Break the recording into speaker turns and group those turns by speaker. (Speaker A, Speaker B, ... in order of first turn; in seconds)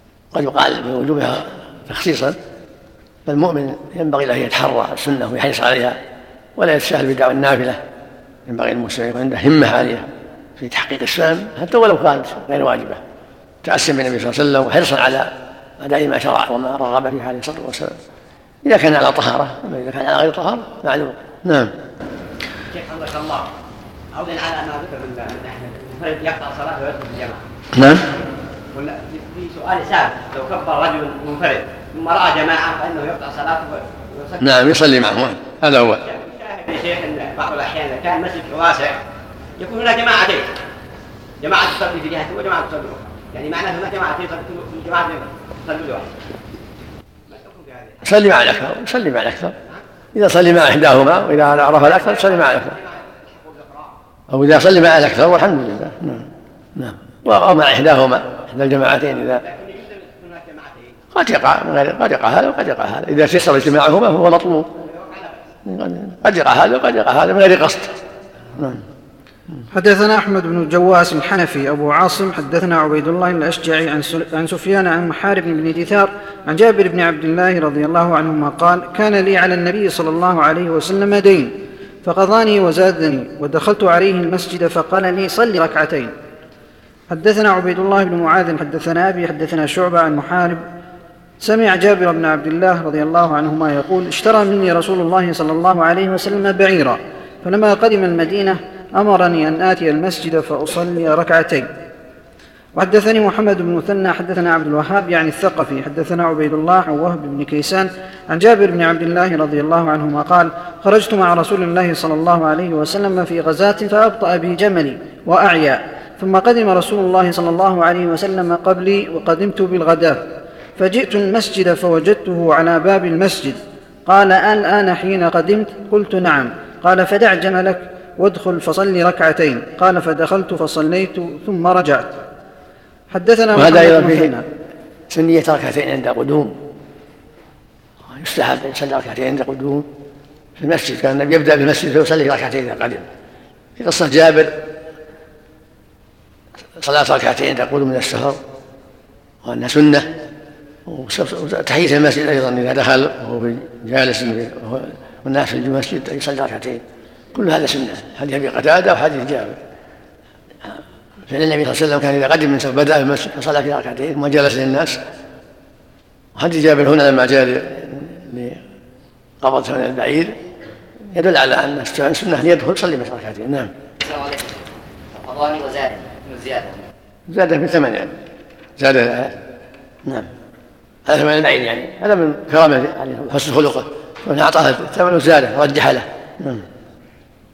Speaker A: 0.3-2.4, 3.2-6.0, 6.6-7.8, 8.5-13.0, 13.6-17.9, 18.6-21.7, 27.7-28.0, 34.4-36.0, 48.0-49.5, 50.1-52.8, 54.3-59.4, 61.1-64.7, 65.7-67.9, 133.5-134.3, 135.1-136.5, 138.1-139.9, 140.6-143.0, 143.8-144.5, 146.8-148.4, 149.4-150.1, 150.9-156.8, 157.3-159.6, 161.3-165.0, 166.3-168.6, 169.4-170.3, 171.1-173.7, 177.3-178.1, 178.8-179.3, 181.1-186.6
Speaker B: 22.7-23.5, 24.1-27.4, 28.7-34.4, 36.0-39.0, 39.6-40.5, 41.4-46.1, 47.3-48.0, 52.6-53.9, 59.4-60.9, 175.2-176.6
Speaker C: 69.7-86.1, 87.1-90.6, 91.4-101.7, 102.7-120.2, 120.8-132.2, 133.1-134.4